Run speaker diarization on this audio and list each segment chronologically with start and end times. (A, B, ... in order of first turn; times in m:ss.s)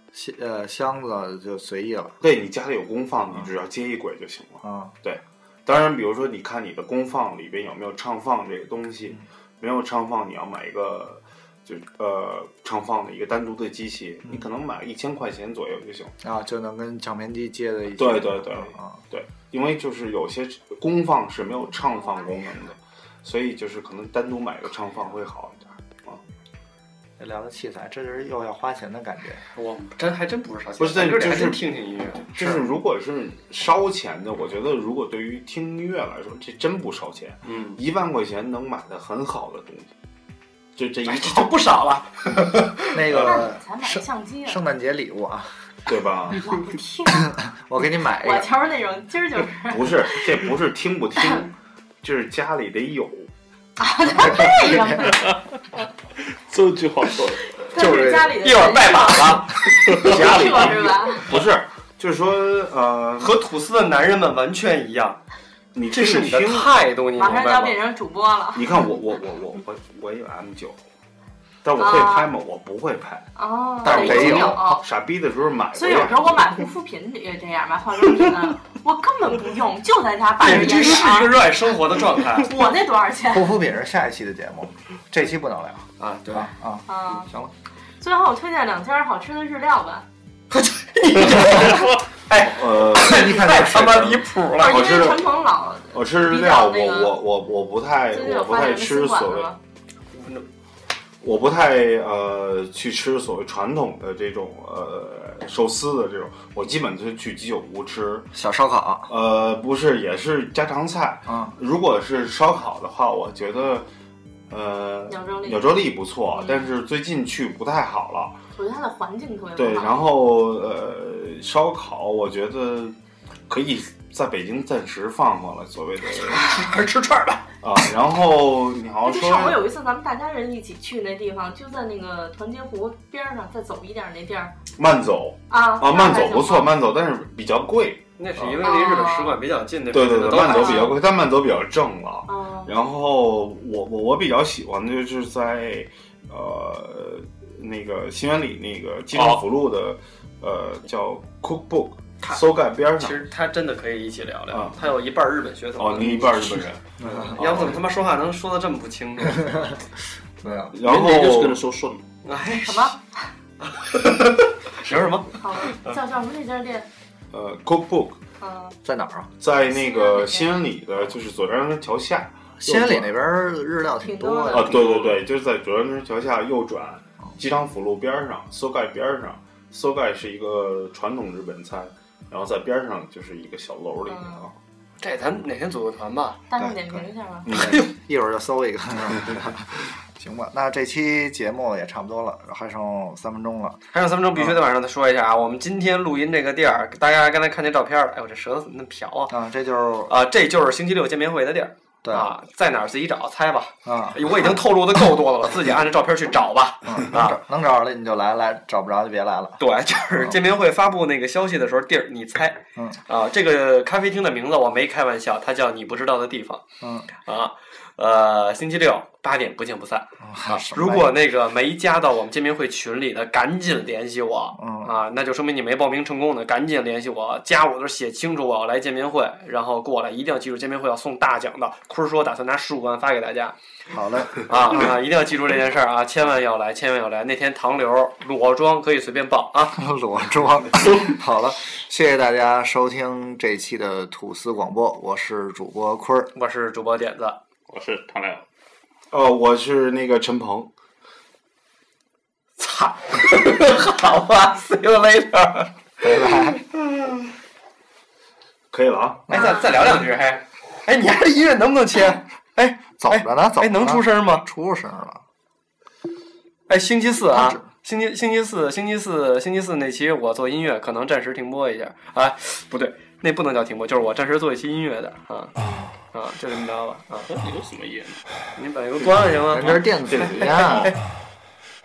0:00.1-0:02.2 A
0:02.2-0:16.1 B
0:04.6-0:04.9 A
0:16.2-0:19.0 A
0:17.9-0:26.2 B
0:22.0-0:22.4 C
0:27.2-0:29.4 A
0:29.5-0:32.7 D
0:30.8-0:31.6 B
0:32.3-0:39.9 B
0:37.4-0:37.8 D
0:40.8-0:41.5 B
0:41.1-0:43.0 D
0:42.9-0:45.5 A
0:43.1-0:43.5 B
0:43.1-0:44.6 C
0:45.9-0:46.6 B
0:46.3-0:47.4 C
0:47.1-0:48.5 A
0:48.1-0:50.5 C
0:49.7-0:51.5 B
0:51.2-0:51.4 C
0:52.0-0:53.3 B
0:53.8-0:55.4 C
0:54.9-0:55.5 E
0:56.5-0:57.9 E
0:57.6-1:01.4 C
0:57.8-1:00.1 D
0:57.9-0:58.3 A
0:59.8-1:00.7 E
1:00.0-1:03.3 B
1:03.2-1:05.2 D
1:05.7-1:06.7 B
1:05.9-1:07.8 D
1:07.2-1:08.7 C
1:08.5-1:10.8 B
1:11.6-1:13.3 B
1:11.8-1:12.3 C
1:13.4-1:14.8 C
1:13.8-1:14.7 A
1:13.8-1:16.6 B
1:15.7-1:21.5 C
1:20.4-1:22.5 D
1:22.3-1:23.6 C
1:23.3-1:27.5 A
1:26.0-1:26.5 D
1:26.8-1:27.3 C
1:28.0-1:30.1 C
1:30.5-1:34.9 D
1:32.3-1:33.4 B
1:32.9-1:34.4 A
1:34.5-1:37.2 C
1:34.6-1:39.5 B
1:38.1-1:39.6 C
1:40.1-1:40.5 D
1:41.2-1:48.3 B
1:48.3-1:49.1 A
1:49.1-1:53.9 B
1:51.2-1:51.5 A
1:54.5-1:58.4 B
1:55.1-1:55.8 C
1:56.3-1:56.7 C
1:58.5-2:00.0 C
1:59.6-2:03.0 B
2:03.5-2:06.6 B
2:06.1-2:07.4 D
2:07.6-2:09.6 B
2:09.0-2:14.6 C
2:14.8-2:18.7 B
2:15.5-2:16.7 C
2:18.2-2:21.0 D
2:18.6-2:19.4 C
2:19.9-2:33.3 B
2:20.4-2:21.0 C
2:22.3-2:22.7 C
2:33.0-2:39.8 D
2:34.5-2:34.9 B
2:35.8-2:36.8 B
2:37.0-2:37.6 A
2:37.3-2:37.8 B
2:39.3-2:39.8 A
2:40.4-2:40.7 A
2:40.7-2:41.6 B
2:40.8-2:42.1 E
2:42.2-2:43.0 D
2:42.6-2:43.3 C
2:43.6-2:46.0 D
2:45.4-2:46.9 C
2:47.3-2:48.2 B
2:48.4-2:48.8 C
2:48.8-2:49.3 A
2:49.4-2:53.1 B
2:49.7-2:50.6 C
2:52.6-2:55.0 A
2:54.0-2:54.8 C
2:54.5-3:04.6 B
3:04.1-3:04.5 C
3:05.0-3:06.4 D
3:06.5-3:07.7 C
3:06.6-3:14.6 A
3:07.5-3:07.8 B
3:07.6-3:07.9 D
3:13.9-3:19.3 D
3:19.3-3:20.1 A
3:20.1-3:27.4 D
3:22.0-3:22.3 A
3:23.8-3:24.2 A
3:26.8-3:29.6 A
3:29.6-3:36.6 D
3:32.8-3:33.0 A
3:36.8-3:37.1 A
3:37.2-3:53.6 D
3:40.2-3:41.2 A
3:44.6-3:45.0 A
3:53.9-3:54.8 A
3:54.4-3:59.8 D
3:59.7-4:06.3 A
4:06.4-4:07.4 D
4:07.7-4:08.4 E
4:09.1-4:10.7 B
4:12.6-4:17.2 D
4:16.0-4:16.6 A
4:18.7-4:19.3 B
4:19.3-4:19.5 A
4:19.3-4:24.4 D
4:19.3-4:19.6 C
4:23.0-4:25.2 A
4:26.7-4:35.5 D
4:27.3-4:27.7 A
4:35.6-4:35.9 C
4:36.1-4:37.4 D
4:37.3-4:38.2 E
4:38.6-4:41.0 D
4:39.5-4:40.9 A
4:40.1-4:40.6 B